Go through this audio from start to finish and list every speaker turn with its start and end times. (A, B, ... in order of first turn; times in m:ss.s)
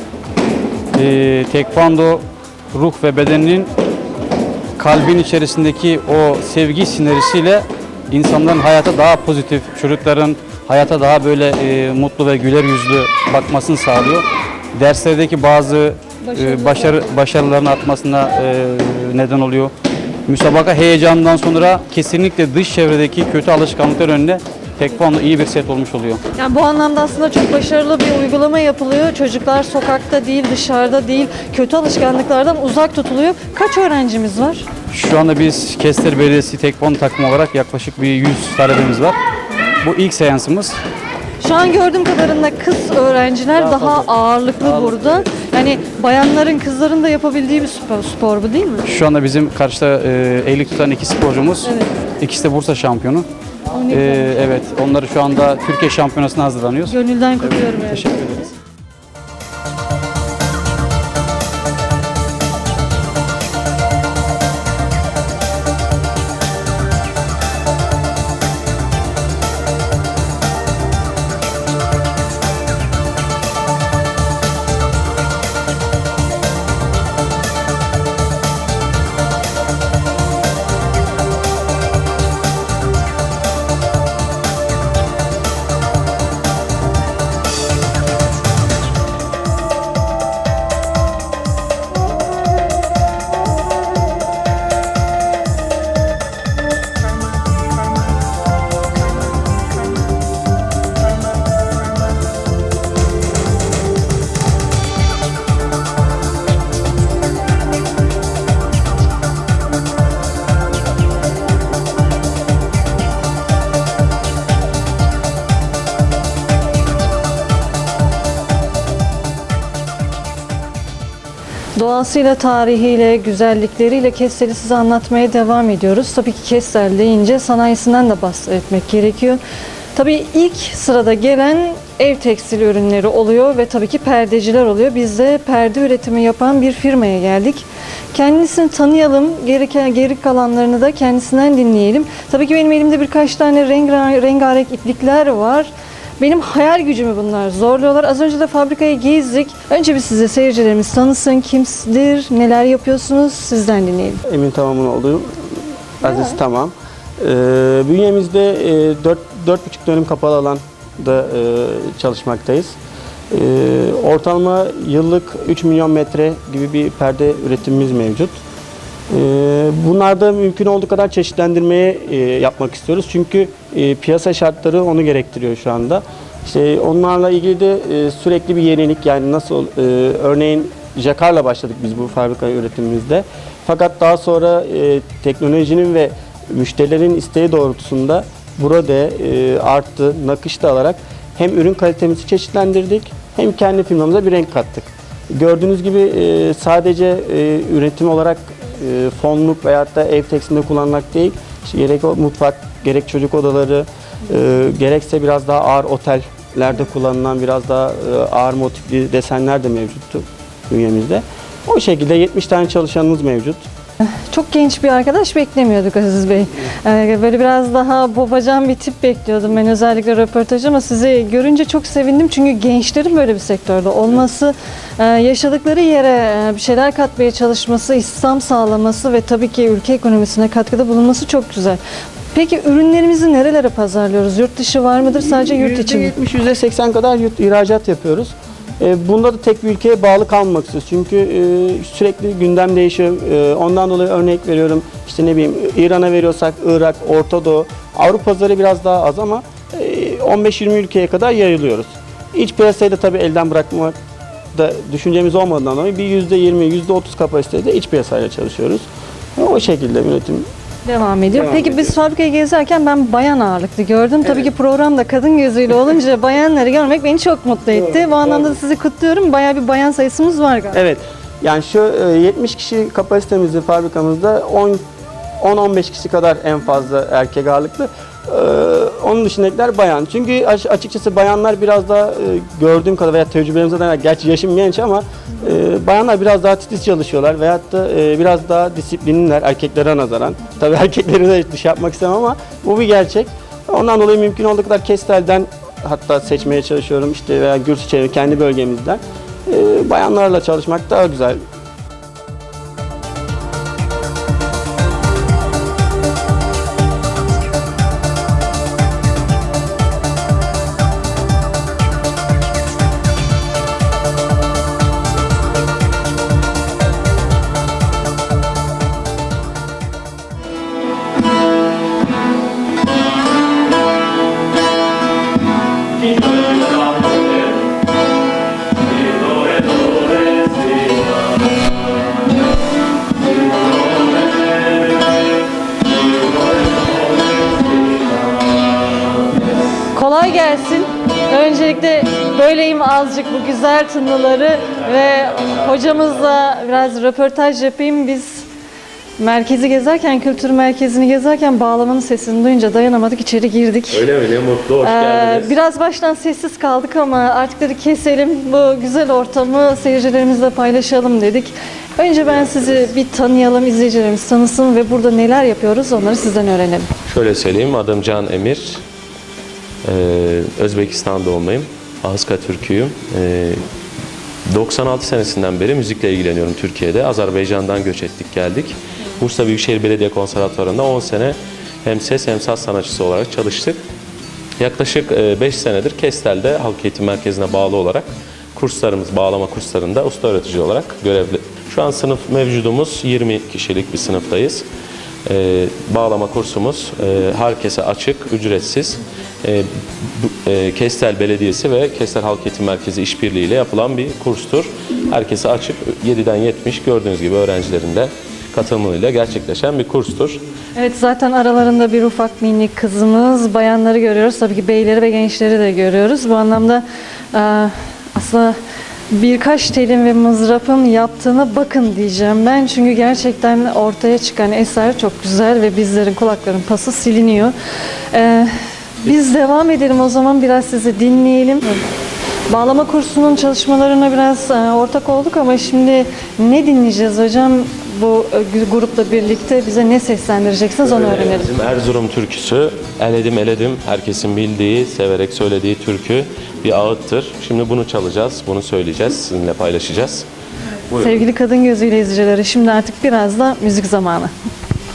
0:01.0-0:03.7 A
0:04.8-0:19.7 A
0:16.3-0:16.9 B
0:20.3-0:26.2 A
0:26.4-0:34.7 B
0:34.9-0:39.2 A
0:39.8-0:40.8 A
0:41.4-0:48.8 B
0:43.7-0:44.0 A
0:44.6-0:45.2 A
0:48.9-0:53.3 A
0:51.6-0:51.9 B
0:53.8-0:54.5 B
0:53.9-0:56.9 A
0:56.9-0:58.4 B
2:01.8-2:09.4 B
2:10.0-2:34.2 B
2:34.3-2:42.8 C
2:36.1-2:36.3 B
2:43.3-2:48.4 C
2:49.1-3:33.6 C
3:34.0-3:51.8 B
3:52.3-3:56.1 B
3:55.2-4:14.0 C
4:14.6-4:18.8 C
4:19.4-4:20.5 C
4:20.9-4:30.8 B
4:21.3-4:22.0 C
4:24.3-4:24.5 C
4:27.7-4:28.6 C
4:30.7-4:34.8 C
4:35.4-5:01.4 C
5:25.9-5:27.6 D
5:28.8-5:32.1 D
5:33.1-5:39.4 D
5:39.9-5:48.5 B
5:49.2-5:54.1 B
5:53.9-5:55.6 D
5:54.8-6:06.9 B
6:02.2-6:02.9 D
6:07.1-6:08.8 D
6:09.8-6:13.6 D
6:14.5-6:23.8 D
6:24.6-6:34.7 D
6:35.3-6:50.4 D
6:50.8-6:58.6 B
6:59.1-7:07.6 B
7:08.1-7:08.5 B
7:09.0-7:11.8 B
7:12.5-7:21.5 B
7:20.8-7:30.3 D
7:30.9-7:31.2 D
7:31.0-7:34.3 B